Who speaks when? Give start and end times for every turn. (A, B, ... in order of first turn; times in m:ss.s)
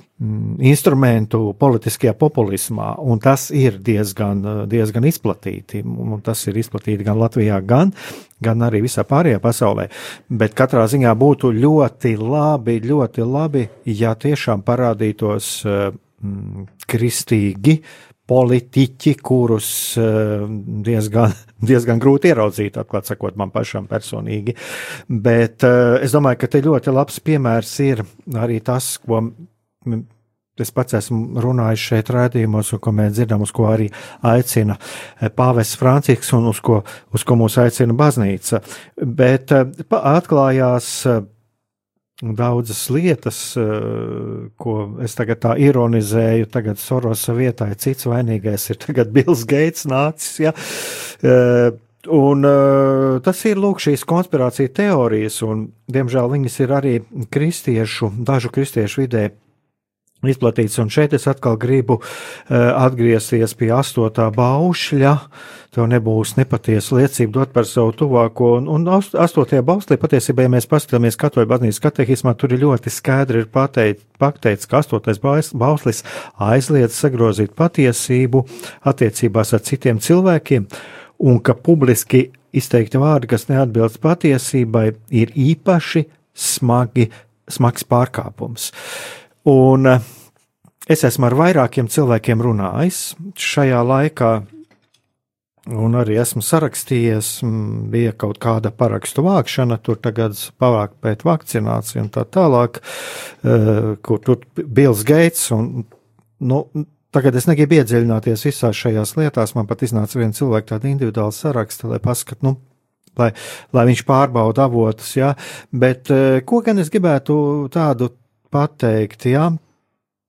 0:00.2-0:24.6 A
0:25.1-0:29.3 A
0:29.8-0:41.2 A
0:42.2-0:59.3 A
1:00.2-1:05.2 A
1:05.7-1:20.7 A
1:21.2-1:28.7 A
1:29.4-1:30.0 A
1:30.9-1:34.5 A
1:35.7-1:45.9 A
1:46.4-1:52.6 A
1:53.2-1:59.6 A